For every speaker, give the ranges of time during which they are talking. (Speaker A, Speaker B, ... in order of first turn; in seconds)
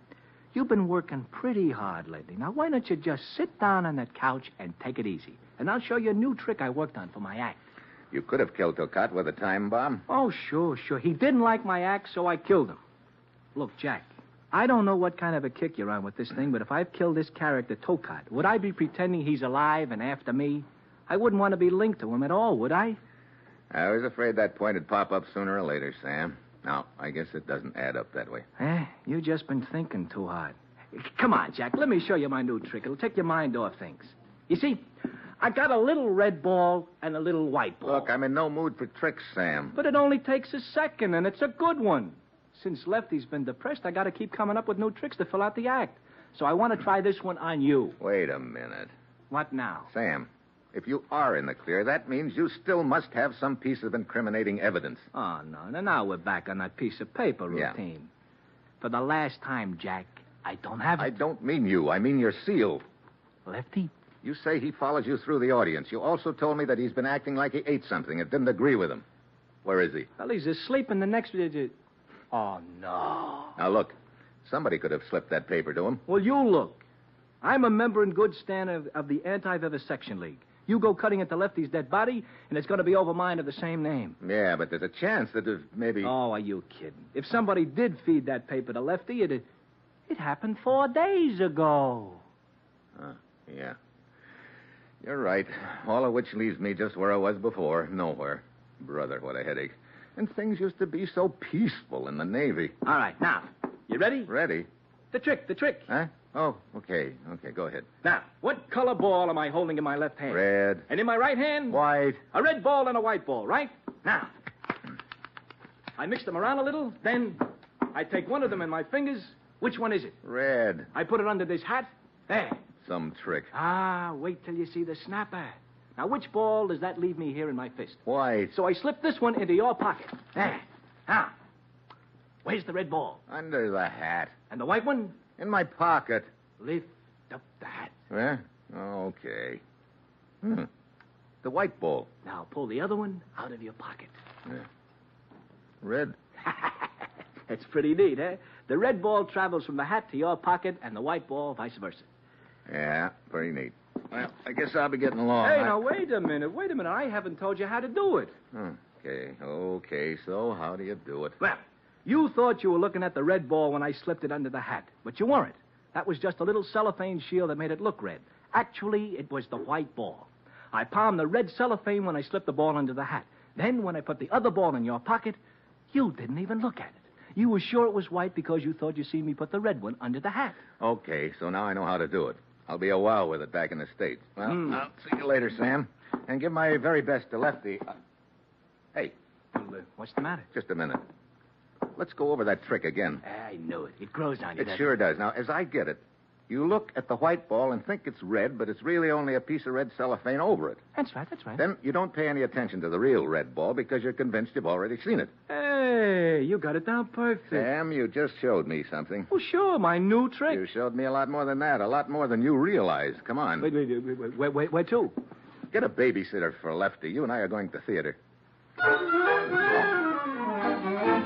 Speaker A: 0.5-7.6, 10.1-12.8, 13.6-23.0, 28.6-34.9, 35.4-38.1, 39.7-48.0, 49.3-49.9, 55.1-58.1, 58.8-61.1, 63.5-63.9, 70.2-71.7, 72.3-73.6, 76.1-76.8, 77.4-84.2, 86.0-89.4, 90.1-92.2, 102.8-104.3, 105.1-105.9, 108.0-111.8, 112.3-114.3, 116.0-120.2, 120.9-122.6, 123.5-131.3, 132.4-133.2, 134.5-135.2, 136.6-137.9, 142.2-144.1, 147.5-152.1, 155.4-158.3, 161.4-175.4, 175.9-180.6, 189.5-190.5, 193.2-194.9, 200.9-201.6, 205.5-207.7, 209.3-210.6, 213.6-215.2
Speaker B: 8.1-10.0, 23.7-28.4, 37.8-39.8, 48.0-48.9, 49.9-55.1, 57.5-57.8, 61.0-62.8, 64.2-69.0, 69.6-70.1, 73.5-76.0, 84.2-86.1, 93.0-93.8, 95.0-102.8, 104.2-104.7, 105.9-107.9, 110.3-110.8, 111.7-112.2, 120.2-120.9, 122.8-123.5, 128.0-128.5, 133.3-134.3, 135.4-136.3, 138.1-139.6, 140.4-140.7, 141.4-142.1, 145.8-146.2, 152.7-155.8, 158.5-161.4, 180.8-188.0, 190.5-191.0, 191.9-193.2, 194.6-200.8, 201.6-205.3, 207.5-209.3, 210.5-213.7, 215.7-218.2, 219.5-219.9